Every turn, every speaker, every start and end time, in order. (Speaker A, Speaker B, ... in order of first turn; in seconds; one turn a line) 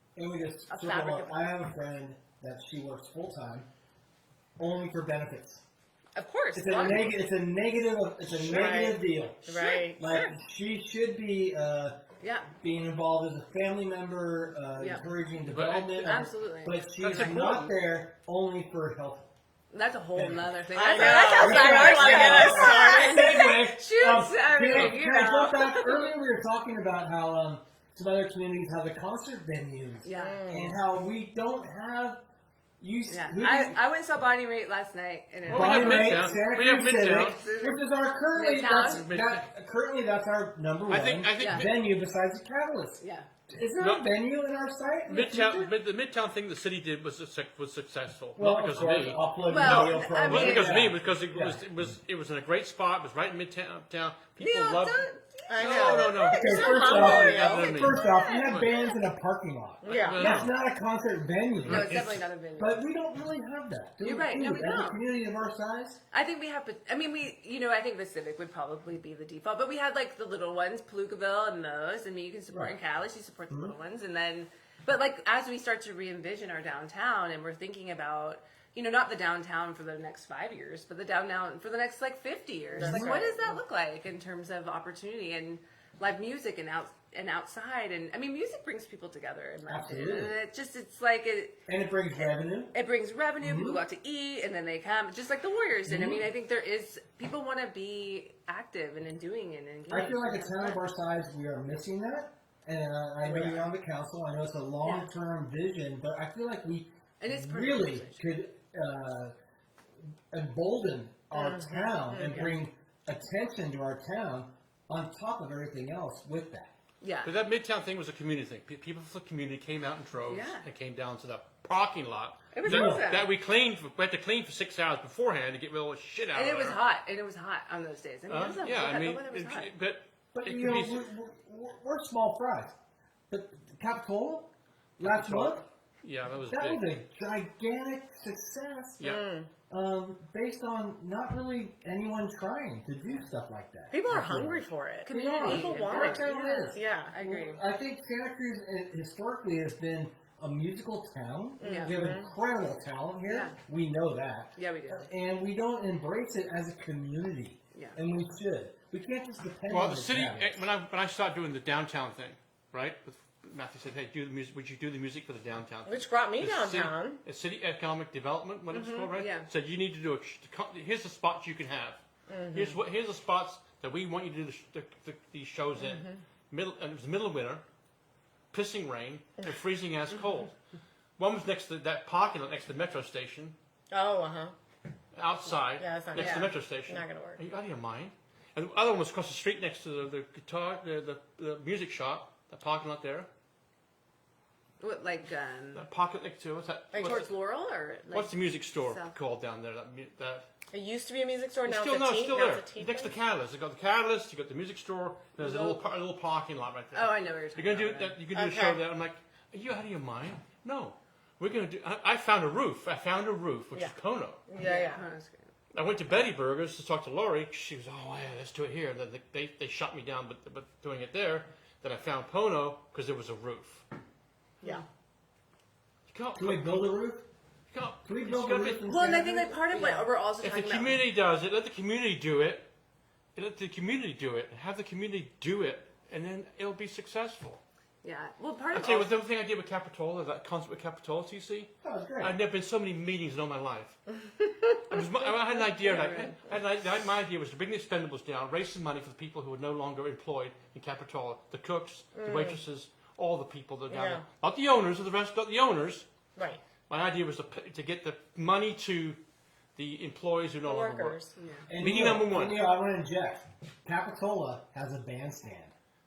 Speaker A: 0.1-3.7
Speaker B: 0.7-1.4
Speaker A: 4.6-5.6
Speaker B: 6.1-7.1
Speaker A: 6.5-12.0
Speaker C: 8.3-8.8
Speaker D: 8.4-10.1
Speaker B: 9.5-10.3
Speaker B: 12.2-12.5
Speaker A: 12.6-19.3
Speaker B: 14.8-15.0
Speaker C: 15.5-16.2
Speaker B: 16.0-17.3
Speaker C: 17.0-17.7
Speaker B: 19.7-26.1
Speaker A: 20.1-32.2
Speaker D: 20.7-23.5
Speaker B: 30.0-30.4
Speaker D: 30.2-30.8
Speaker A: 32.8-33.8
Speaker B: 33.1-36.4
Speaker C: 35.5-37.5
Speaker A: 35.5-45.7
Speaker B: 37.3-37.8
Speaker B: 38.3-39.1
Speaker C: 38.9-39.4
Speaker C: 40.9-41.7
Speaker B: 41.4-41.7
Speaker B: 43.0-43.3
Speaker C: 43.8-44.1
Speaker C: 45.1-55.1
Speaker A: 48.4-51.6
Speaker B: 49.5-50.9
Speaker B: 54.4-59.0
Speaker D: 55.5-57.8
Speaker C: 55.6-58.7
Speaker A: 56.3-62.0
Speaker D: 59.8-60.2
Speaker C: 59.9-60.5
Speaker B: 60.1-60.5
Speaker C: 61.6-62.2
Speaker B: 61.7-62.8
Speaker A: 62.6-66.0
Speaker B: 64.0-65.0
Speaker B: 66.1-91.6
Speaker A: 72.5-72.8
Speaker A: 73.5-73.7
Speaker A: 82.8-83.3
Speaker D: 82.8-83.5
Speaker A: 89.7-90.4
Speaker A: 91.7-92.7
Speaker B: 92.2-100.8
Speaker A: 93.4-93.8
Speaker A: 95.8-96.3
Speaker A: 99.9-109.3
Speaker D: 103.2-103.7
Speaker B: 107.2-108.2
Speaker A: 110.3-116.7
Speaker D: 111.3-112.5
Speaker B: 117.0-117.3
Speaker C: 117.2-126.8
Speaker B: 120.3-120.7
Speaker B: 122.5-123.3
Speaker A: 122.6-123.0
Speaker B: 126.3-129.7
Speaker C: 128.3-131.0
Speaker A: 130.3-132.8
Speaker A: 133.3-135.6
Speaker C: 135.0-136.8
Speaker A: 136.4-139.1
Speaker D: 139.0-139.5
Speaker A: 139.7-160.6
Speaker D: 143.9-147.1
Speaker B: 145.0-147.6
Speaker B: 151.6-151.9
Speaker D: 151.6-152.3
Speaker B: 153.3-153.6
Speaker B: 154.6-155.1
Speaker C: 159.7-172.0
Speaker D: 165.8-167.2
Speaker B: 168.7-169.5
Speaker D: 172.3-172.8
Speaker C: 172.5-177.6
Speaker C: 178.5-180.5
Speaker C: 181.2-183.6
Speaker D: 183.9-184.5
Speaker C: 185.1-193.3
Speaker D: 185.8-187.4
Speaker B: 186.1-186.5
Speaker B: 194.8-195.8
Speaker C: 195.7-197.2
Speaker D: 196.9-197.3
Speaker B: 197.0-199.2
Speaker C: 198.1-200.5
Speaker D: 200.7-203.1
Speaker C: 201.6-214.4
Speaker B: 205.4-205.8
Speaker B: 206.9-208.2
Speaker D: 208.3-208.8
Speaker D: 214.5-215.1
Speaker B: 214.6-215.5
Speaker C: 215.7-223.8
Speaker C: 226.1-226.8
Speaker A: 226.3-227.3
Speaker C: 227.7-228.8
Speaker A: 228.0-229.6
Speaker B: 228.8-231.1
Speaker D: 229.7-230.1
Speaker C: 230.4-232.7
Speaker C: 233.3-237.6
Speaker B: 238.0-239.1
Speaker C: 238.7-256.1
Speaker A: 241.8-242.4
Speaker B: 245.2-246.4
Speaker D: 252.2-252.6
Speaker D: 253.9-254.2
Speaker D: 256.4-256.6
Speaker C: 256.9-259.2
Speaker C: 259.8-261.2
Speaker D: 260.6-261.3
Speaker B: 261.3-261.7
Speaker A: 261.7-265.7
Speaker C: 261.8-262.6